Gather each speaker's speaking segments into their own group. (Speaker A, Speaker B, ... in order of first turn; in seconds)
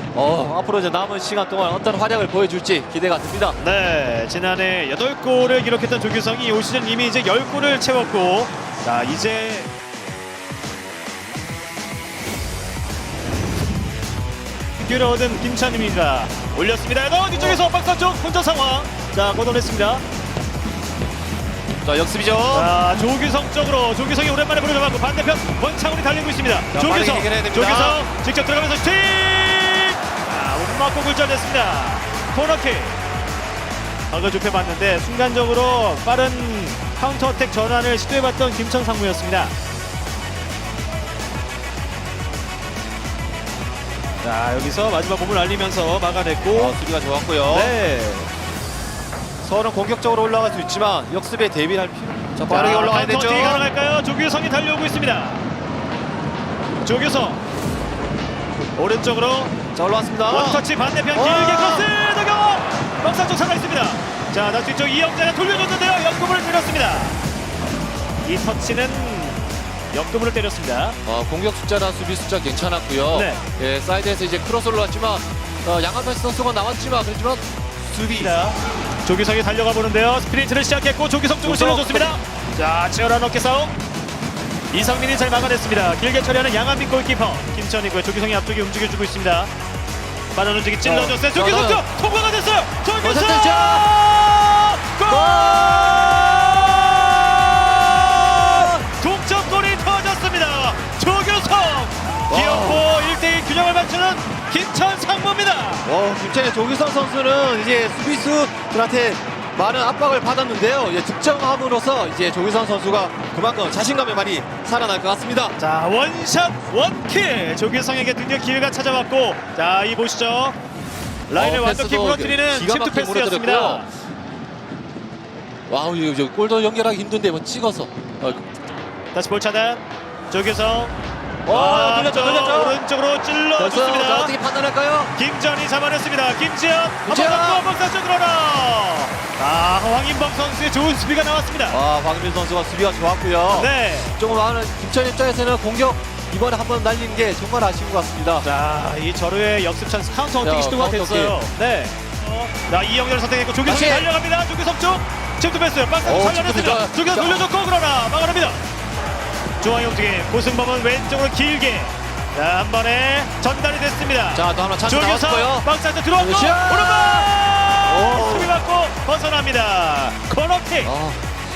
Speaker A: 0.1-3.6, 17.3-17.6, 21.8-22.7, 26.7-28.0, 46.5-47.8, 49.4-53.6, 59.7-61.9, 71.0-78.3, 81.4-82.2, 90.8-91.8, 93.0-93.9, 95.0-98.8, 102.3-102.8, 105.8-115.6, 121.3-123.8, 125.7-128.4, 131.4-132.8, 133.6-135.1, 137.0-137.7, 141.7-148.5, 150.4-151.4, 153.6-154.1, 156.0-157.4, 164.3-167.3, 167.8-168.6, 170.8-171.2
Speaker B: 3.6-9.7, 14.8-20.0, 22.5-33.0, 34.1-39.5, 44.2-46.8, 47.5-48.3, 52.4-55.5, 56.8-57.4, 58.8-59.5, 60.3-67.2, 68.2-71.0, 73.1-73.4, 77.9-83.7, 84.7-89.5, 90.3-105.9, 115.6-120.6, 121.3-123.9, 129.1-130.9, 131.5-134.3, 135.2-141.8, 143.5-144.1, 148.4-158.6, 159.6-170.9